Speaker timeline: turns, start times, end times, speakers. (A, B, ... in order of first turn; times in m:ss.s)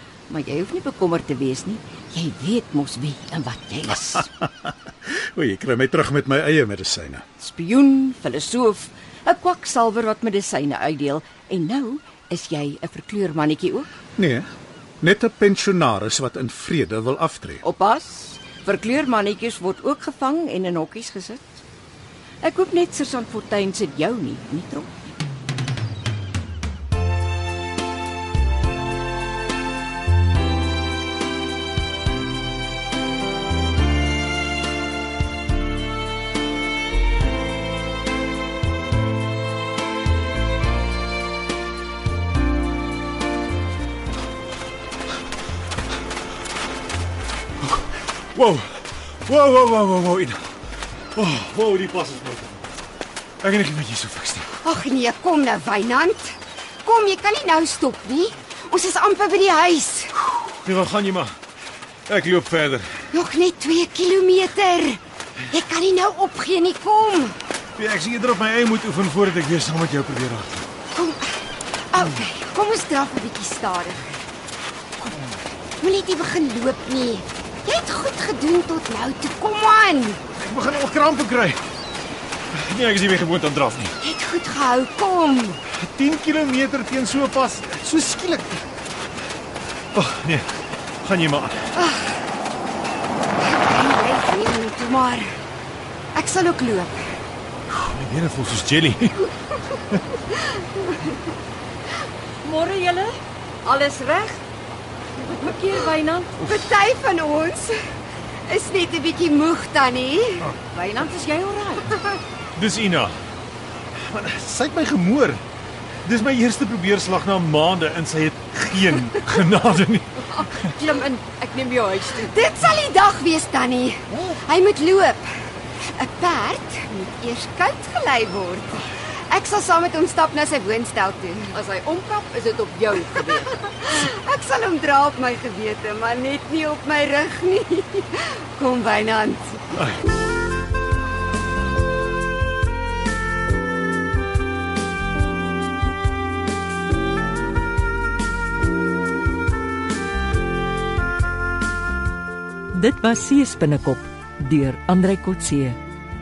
0:00.3-0:04.3 A
0:05.1-0:07.2 B
0:07.4-0:13.9 A
0:14.2-0:14.5 B
0:15.0-0:17.6 B
0:17.6-0:21.6 A
0:22.4-0:24.9 A
0:47.7-0:50.4 C
0:51.1-0:52.6 C
0:53.4-0:54.5 C
0:54.6-1:00.1 D
1:00.2-1:01.4 C
1:02.1-1:02.9 C
1:03.1-1:07.4 D
1:07.8-1:10.7 C
1:10.9-1:11.4 D
1:11.9-1:14.1 D
1:15.8-1:20.2 D
1:20.3-1:21.6 C
1:22.5-1:24.0 C
1:24.0-1:25.6 D
1:25.7-1:28.6 C
1:29.9-1:31.6 C
1:31.8-1:32.1 D
1:33.4-1:35.3 D
1:36.2-1:37.0 D
1:37.7-1:39.3 C
1:40.3-1:41.1 D
1:42.4-1:44.4 A
1:45.2-1:46.4 A
1:46.4-1:47.8 D
1:48.5-1:50.5 D
1:50.7-1:51.9 A
1:52.5-1:53.2 C
1:53.9-1:55.4 C
1:56.0-2:00.6 C
2:00.4-2:02.4 A
2:02.3-2:05.3 D
2:05.9-2:11.5 D
2:11.5-2:13.7 A
2:13.7-2:19.6 D
2:32.7-2:35.8 E